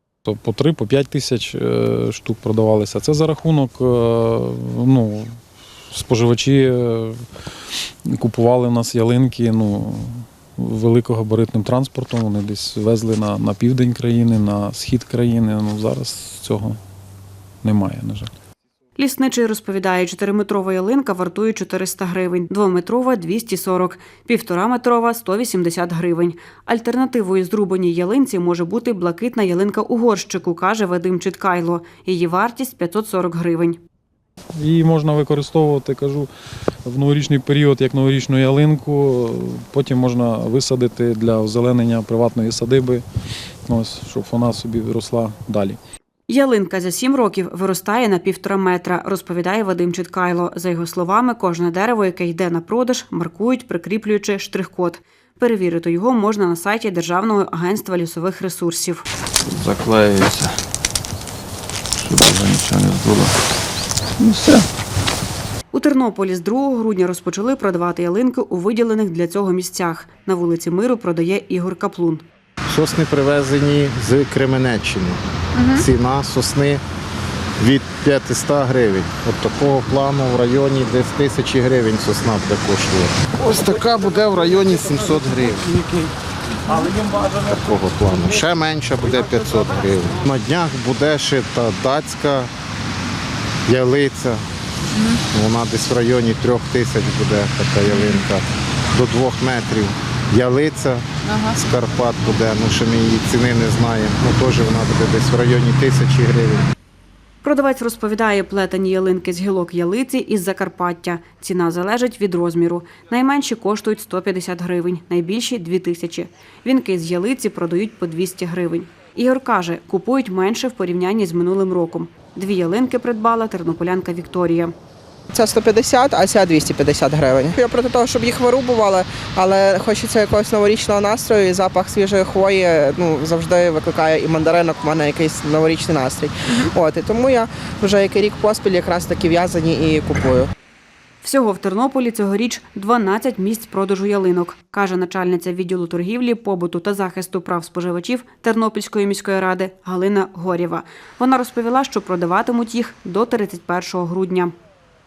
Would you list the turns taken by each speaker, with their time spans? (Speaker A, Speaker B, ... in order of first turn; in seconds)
Speaker A: 0.3-16.8, 17.6-18.3, 34.6-36.3, 36.9-43.0, 43.7-45.8
Speaker B: 19.0-33.8, 46.3-59.0, 65.7-72.2, 107.4-124.7, 141.2-154.6
Speaker C: 59.5-60.6, 62.0-63.4, 64.2-64.7
Speaker D: 72.7-76.8, 77.6-85.8, 86.8-92.5, 93.7-94.4, 95.3-106.7
Speaker E: 125.3-140.5